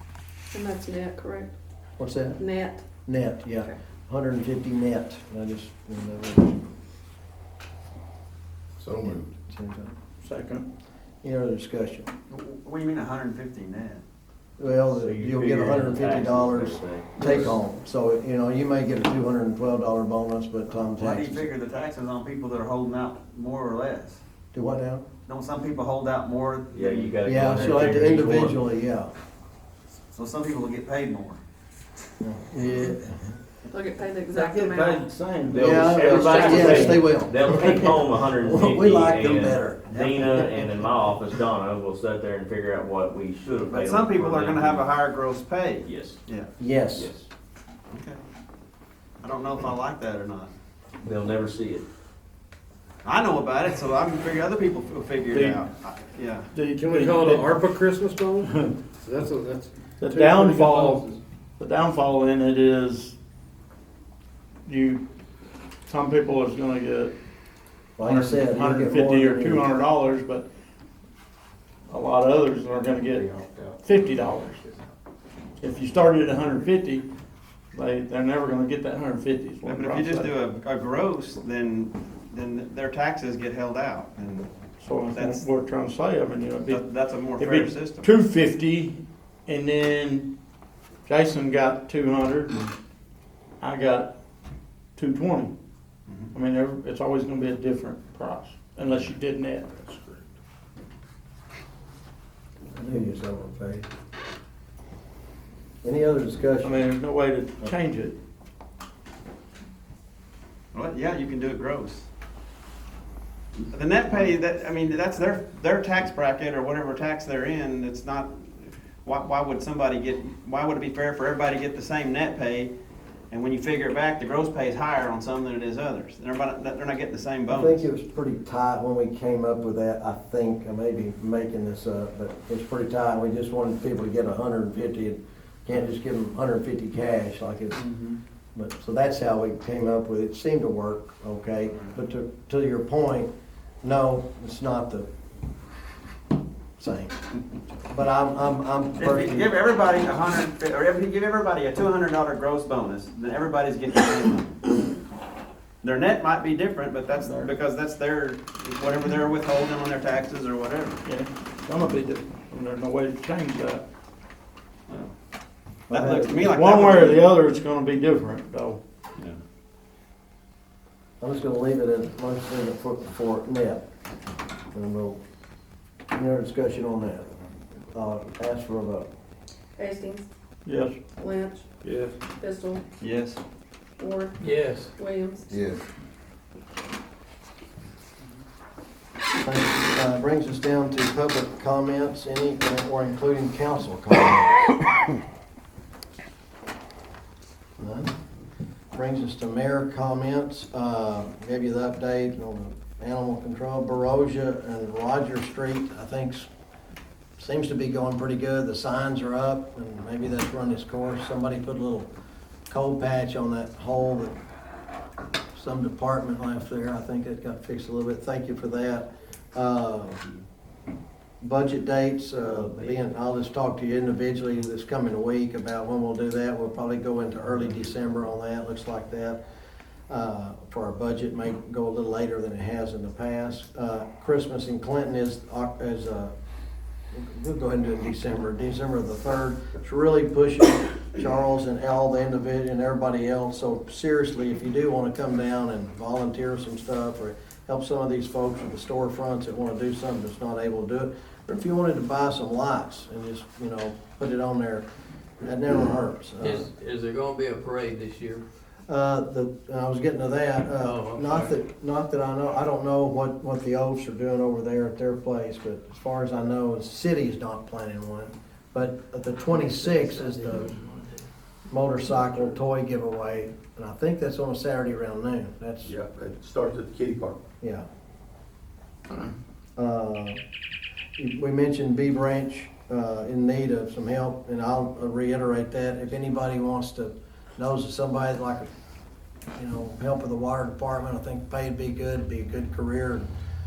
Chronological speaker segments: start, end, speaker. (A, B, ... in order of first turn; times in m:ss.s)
0:00.5-0:01.5 A
0:02.0-0:02.4 B
0:02.4-0:02.8 A
0:03.0-0:06.7 B
0:08.9-0:09.1 C
0:09.5-0:09.9 B
0:10.2-0:10.7 D
0:11.2-0:12.1 B
0:12.3-0:14.0 E
0:14.6-0:21.5 B
0:14.9-0:17.5 F
0:20.7-0:24.2 E
0:24.5-0:25.1 B
0:25.3-0:28.1 E
0:26.7-0:28.6 F
0:27.2-0:29.1 B
0:30.1-0:31.4 E
0:32.2-0:33.4 B
0:33.7-0:35.1 A
0:34.3-0:36.8 D
0:35.5-0:44.9 F
0:35.5-0:39.9 B
0:36.1-0:37.0 A
0:39.5-0:40.8 E
0:43.7-0:46.5 E
0:45.8-0:46.2 F
0:46.6-0:47.1 B
0:47.0-0:47.3 F
0:47.9-0:48.2 E
0:49.2-0:50.5 E
0:51.0-0:51.8 F
0:53.0-0:56.5 E
0:55.3-0:55.6 D
0:56.5-0:57.5 D
0:56.7-1:01.2 G
0:58.4-0:58.8 D
1:00.0-1:01.0 D
1:01.6-1:03.2 D
1:04.7-1:05.0 D
1:05.9-1:07.1 D
1:08.0-1:09.7 B
1:08.0-1:10.5 D
1:11.9-1:13.3 D
1:13.8-1:14.6 D
1:15.6-1:17.1 D
1:17.7-1:20.3 D
1:19.7-1:24.5 E
1:24.8-1:26.8 D
1:25.1-1:25.4 E
1:26.7-1:28.1 E
1:27.4-1:30.3 D
1:31.1-1:32.7 D
1:33.6-1:34.1 D
1:35.0-1:35.5 D
1:36.3-1:40.0 D
1:42.8-1:43.0 D
1:42.8-1:43.9 B
1:45.8-1:46.8 B
1:46.6-1:48.2 D
1:50.7-1:52.1 E
1:53.7-2:02.7 E
2:03.3-2:07.9 E
2:07.5-2:17.8 B
2:17.8-2:18.2 E
2:18.6-2:23.3 B
2:23.8-2:25.1 B
2:26.8-2:27.2 B
2:27.9-2:29.5 B
2:29.0-2:34.7 E
2:35.8-2:41.0 E
2:37.2-2:37.5 D
2:41.0-2:43.8 D
2:45.9-2:46.5 B
2:45.9-2:47.3 E
2:46.4-2:48.8 D
2:51.2-2:53.8 B
2:54.7-2:55.2 B
2:56.1-2:57.3 B
2:57.9-2:59.1 B
2:59.8-3:00.3 A
3:00.6-3:01.0 D
3:01.2-3:01.6 A
3:01.8-3:02.1 G
3:02.4-3:02.8 A
3:03.0-3:03.4 E
3:04.0-3:05.5 A
3:05.5-3:05.8 C
3:09.4-3:14.6 B
3:17.8-3:18.1 B
3:18.9-3:26.5 B
3:27.4-3:32.1 B
3:32.7-3:34.4 B
3:35.5-3:40.2 B
3:41.4-3:49.4 B
3:50.1-3:56.3 B
3:57.1-4:14.8 B
4:15.4-4:16.7 B
4:16.4-4:18.4 H
4:18.9-4:30.7 B
4:20.8-4:21.5 H
4:31.7-4:35.9 B
4:35.8-4:37.4 C
4:37.6-4:37.9 B
4:39.8-4:40.4 B
4:41.2-4:48.7 B
4:49.6-4:53.3 B